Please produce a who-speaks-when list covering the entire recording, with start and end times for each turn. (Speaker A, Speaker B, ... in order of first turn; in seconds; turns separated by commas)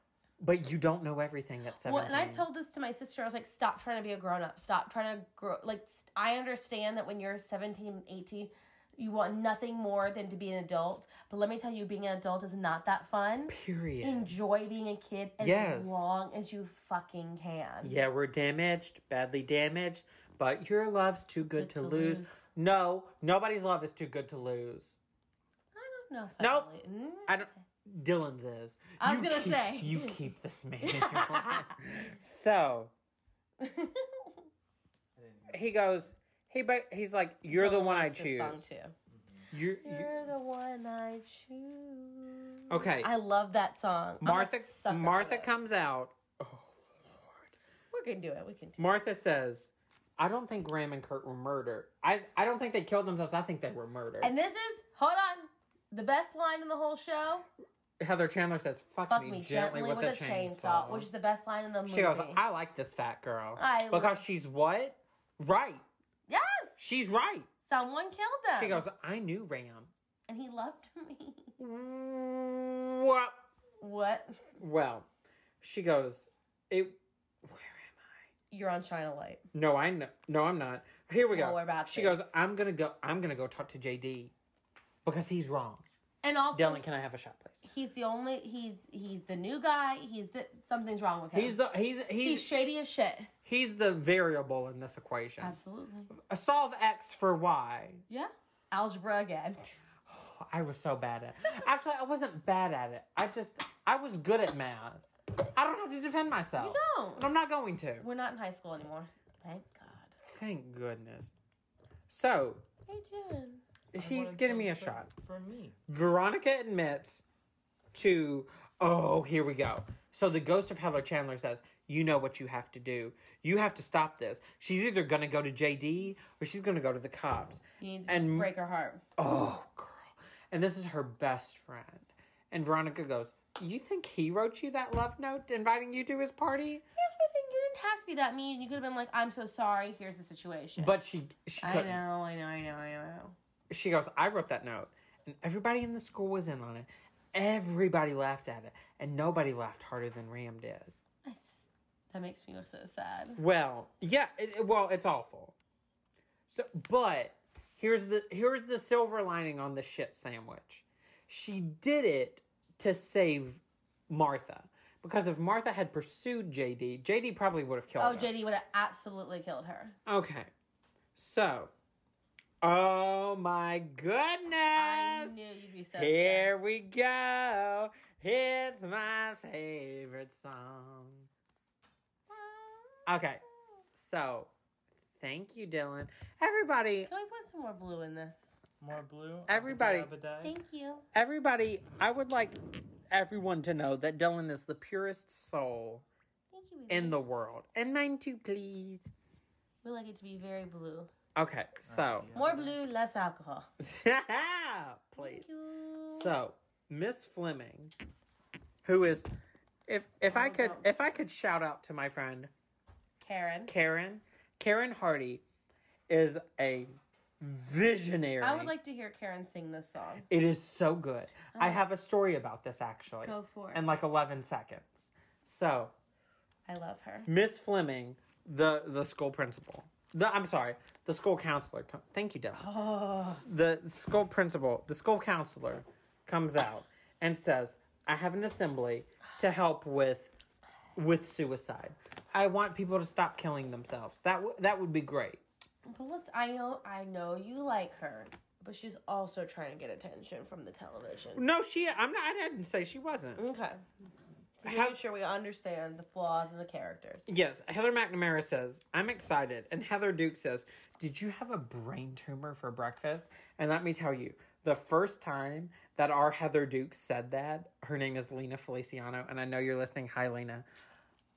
Speaker A: 0.4-2.5, Speaker B: 1.8-18.0, Speaker A: 13.5-14.3, Speaker A: 15.4-16.0, Speaker A: 17.8-25.0, Speaker B: 21.5-22.4, Speaker B: 25.8-27.6, Speaker A: 26.4-26.7, Speaker A: 27.3-32.9, Speaker B: 29.0-30.2, Speaker B: 30.8-31.8, Speaker B: 33.6-34.4, Speaker C: 35.2-36.0, Speaker A: 35.5-38.7, Speaker B: 37.5-38.9, Speaker C: 39.1-39.5, Speaker A: 39.5-40.1, Speaker B: 39.8-45.5, Speaker A: 42.7-43.1, Speaker A: 44.2-47.5, Speaker B: 47.9-48.8, Speaker A: 48.8-54.3, Speaker B: 54.2-57.5, Speaker A: 58.0-61.1, Speaker B: 59.1-62.4, Speaker A: 61.9-65.8, Speaker B: 63.6-64.2, Speaker B: 66.3-66.8, Speaker A: 66.8-67.5, Speaker B: 67.7-68.8, Speaker A: 68.5-69.9, Speaker B: 70.3-71.5, Speaker A: 71.6-73.4, Speaker B: 73.8-74.5, Speaker A: 74.6-75.1, Speaker A: 75.6-78.2, Speaker B: 78.5-79.4, Speaker A: 79.5-84.3, Speaker B: 81.3-82.2, Speaker A: 85.0-85.8, Speaker B: 86.2-86.8, Speaker A: 86.5-87.6, Speaker B: 87.6-91.6, Speaker A: 91.3-92.5, Speaker B: 92.2-93.3, Speaker A: 93.5-95.6, Speaker B: 95.4-96.1, Speaker A: 96.1-98.0, Speaker B: 98.1-99.7, Speaker A: 100.1-108.1, Speaker B: 106.6-107.3, Speaker B: 108.0-110.1, Speaker A: 110.2-111.3, Speaker A: 112.1-112.7, Speaker B: 112.9-113.6, Speaker A: 113.9-115.1, Speaker C: 114.0-115.8, Speaker A: 115.9-117.2, Speaker A: 117.9-128.5, Speaker B: 127.8-129.0, Speaker A: 129.2-136.8, Speaker B: 137.0-141.0, Speaker A: 140.8-142.0, Speaker B: 141.6-143.3, Speaker A: 143.7-150.9, Speaker B: 151.2-153.4, Speaker A: 153.4-155.6, Speaker A: 156.5-168.3, Speaker B: 168.0-170.0, Speaker A: 170.1-170.5, Speaker A: 171.2-171.7, Speaker A: 172.6-175.4, Speaker B: 174.8-176.5, Speaker A: 176.0-181.3, Speaker B: 182.3-183.1, Speaker A: 183.1-183.4, Speaker A: 183.9-184.5, Speaker A: 185.2-187.1, Speaker B: 187.1-188.6, Speaker C: 188.8-190.5, Speaker A: 189.5-190.1, Speaker B: 190.4-191.1, Speaker A: 191.1-192.6, Speaker A: 193.1-196.1, Speaker B: 196.5-197.2, Speaker A: 196.9-199.1, Speaker B: 199.8-201.1, Speaker A: 201.4-202.3, Speaker C: 201.8-202.8, Speaker B: 202.3-203.7, Speaker A: 203.8-205.5, Speaker B: 205.2-206.3, Speaker A: 206.1-207.9, Speaker A: 208.8-209.3, Speaker A: 209.9-212.5, Speaker B: 210.3-210.9, Speaker B: 213.2-213.7, Speaker A: 213.7-215.4, Speaker A: 216.1-218.7, Speaker B: 218.4-220.3, Speaker A: 220.3-225.9, Speaker B: 221.5-221.8, Speaker B: 223.2-223.8, Speaker B: 226.7-227.3, Speaker A: 227.3-232.7, Speaker B: 232.6-233.4, Speaker A: 233.4-240.3, Speaker A: 240.9-245.4, Speaker B: 245.9-251.4, Speaker A: 251.3-253.4, Speaker B: 253.4-253.8, Speaker B: 254.6-257.3, Speaker A: 254.6-255.0, Speaker A: 257.3-270.7